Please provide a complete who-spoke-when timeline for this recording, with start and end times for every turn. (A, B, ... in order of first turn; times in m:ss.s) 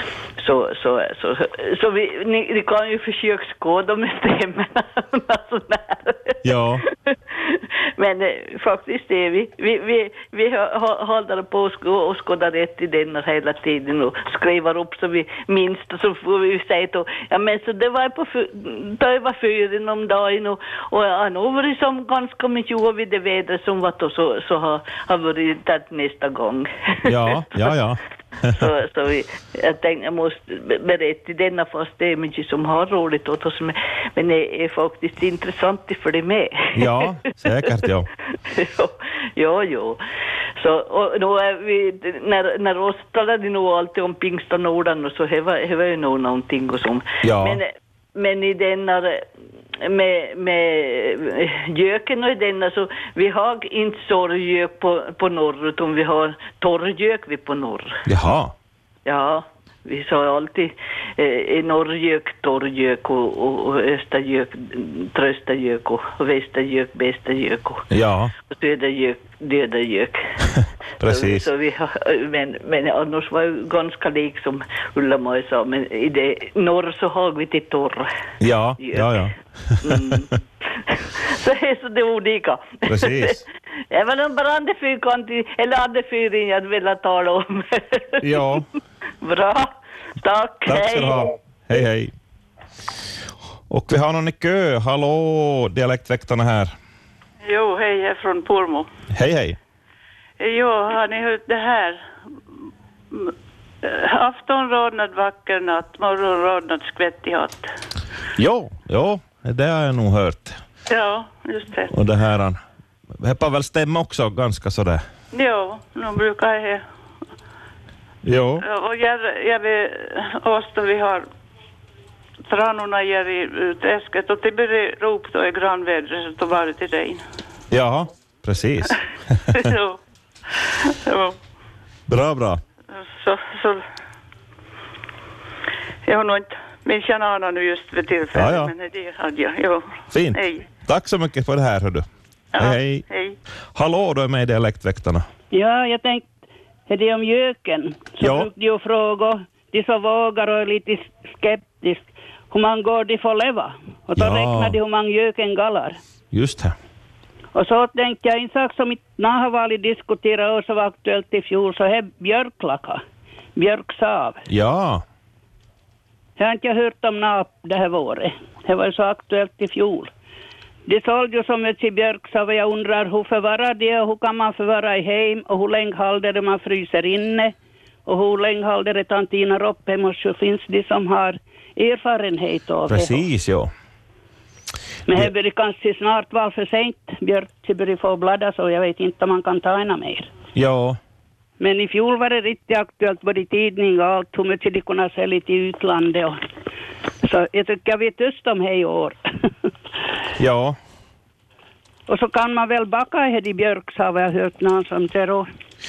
0:00.4-0:27.7 A
0:06.4-0:06.8 B
0:27.0-0:28.6 B
0:28.6-0:37.7 A
0:36.8-0:38.1 B
0:38.4-0:40.0 A
0:40.6-0:58.0 A
0:47.2-0:47.6 B
0:58.1-0:58.5 B
0:59.0-1:07.9 A
1:07.9-1:08.3 B
1:08.5-1:10.4 A
1:11.0-1:11.5 B
1:11.0-1:18.1 A
1:18.4-1:20.2 B
1:18.8-1:19.2 A
1:19.8-1:28.3 A
1:22.9-1:23.4 B
1:28.2-1:28.6 B
1:29.2-1:31.2 A
1:30.7-1:32.1 B
1:33.7-1:36.7 B
1:37.4-1:38.9 C
1:39.1-1:39.6 B
1:40.4-1:42.0 C
1:43.8-1:47.6 C
1:48.4-1:50.6 B
1:50.9-1:51.9 C
1:51.9-1:52.6 B
1:53.2-1:55.0 B
1:55.3-1:56.8 C
1:58.2-1:58.6 B
1:58.6-2:01.3 C
2:02.5-2:07.2 C
2:07.7-2:09.7 B
2:09.6-2:10.0 C
2:10.6-2:11.4 C
2:12.1-2:12.6 B
2:13.0-2:13.8 C
2:16.1-2:20.7 C
2:18.3-2:18.7 B
2:20.1-2:22.0 B
2:22.5-2:23.4 C
2:22.6-2:23.0 B
2:23.8-2:25.2 B
2:25.5-2:26.3 D
2:26.9-2:36.0 D
2:28.2-2:28.5 B
2:34.2-2:34.8 B
2:36.3-2:36.7 B
2:37.5-2:43.0 D
2:43.6-2:44.4 D
2:44.5-2:45.0 B
2:46.4-2:50.1 D
2:50.9-2:57.5 D
2:58.1-3:03.2 D
3:02.9-3:03.7 B
3:05.1-3:10.3 D
3:10.6-3:11.0 B
3:11.6-3:16.4 D
3:17.2-3:19.5 D
3:20.4-3:20.8 B
3:22.1-3:25.4 D